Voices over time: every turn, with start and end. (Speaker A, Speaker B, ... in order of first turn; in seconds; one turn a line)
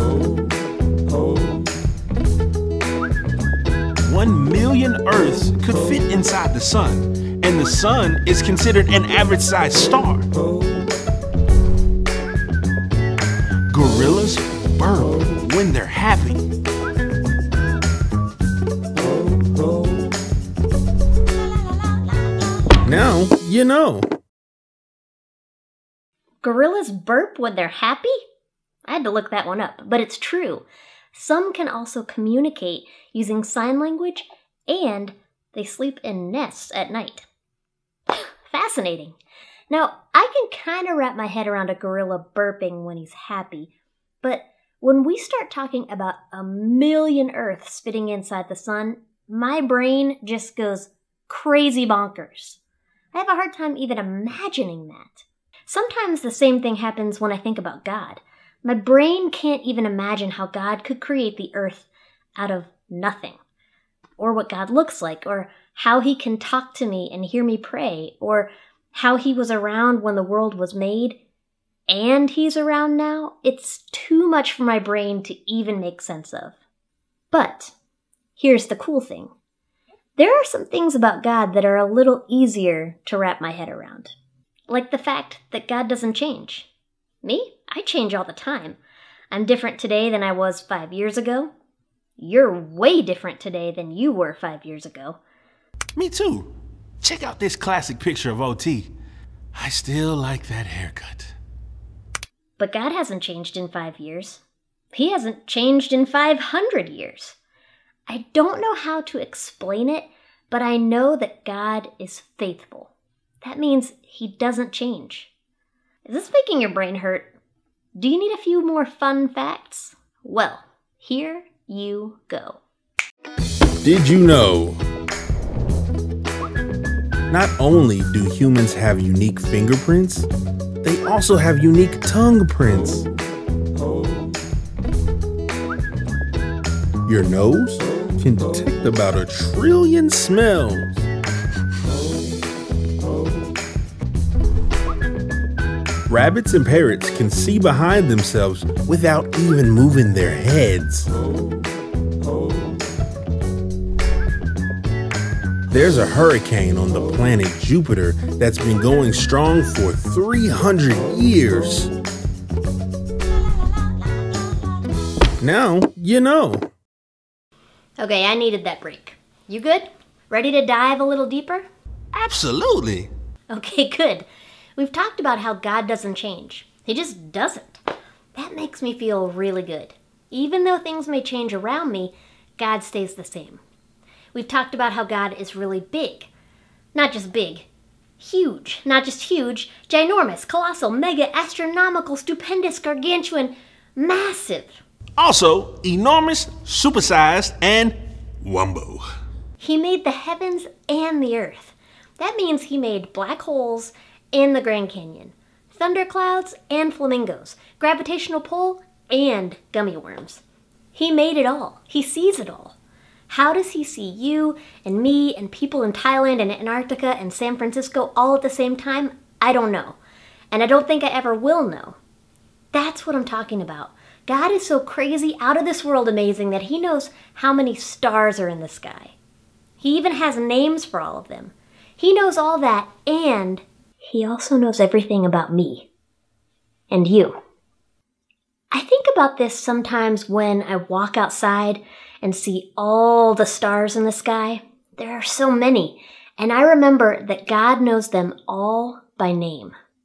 Speaker A: 4.0-10.3
Speaker A: 13.7-16.4
Speaker A: 22.8-24.1
Speaker B: 26.4-28.1
Speaker B: 28.9-37.2
Speaker B: 38.1-39.2
Speaker B: 39.7-43.7
Speaker B: 44.2-52.6
Speaker B: 53.1-63.4
Speaker B: 64.2-71.2
Speaker B: 71.9-76.6
Speaker B: 77.3-77.7
Speaker B: 78.4-79.3
Speaker B: 80.2-84.1
Speaker B: 84.7-86.7
Speaker B: 87.2-88.8
Speaker B: 89.3-91.5
Speaker B: 92.2-95.2
Speaker A: 96.0-98.9
Speaker A: 99.5-101.3
Speaker B: 102.6-104.4
Speaker B: 104.9-107.4
Speaker B: 108.1-112.9
Speaker B: 113.4-115.3
Speaker B: 116.0-117.3
Speaker B: 118.0-122.6
Speaker A: 123.8-124.8
Speaker A: 127.3-130.3
Speaker A: 130.8-133.1
Speaker A: 137.1-141.1
Speaker A: 146.1-151.1
Speaker A: 155.7-161.9
Speaker A: 165.4-166.7
Speaker B: 168.0-171.7
Speaker A: 172.1-173.1
Speaker B: 173.5-177.8
Speaker B: 178.3-183.6
Speaker B: 184.3-186.3
Speaker B: 186.9-187.7
Speaker B: 188.2-194.8
Speaker A: 195.2-199.0
Speaker B: 199.6-210.4
Speaker B: 210.9-212.8
Speaker B: 213.3-220.0
Speaker B: 220.5-222.0
Speaker B: 222.7-229.1
Speaker B: 229.8-235.9
Speaker B: 236.9-237.4
Speaker B: 238.7-249.7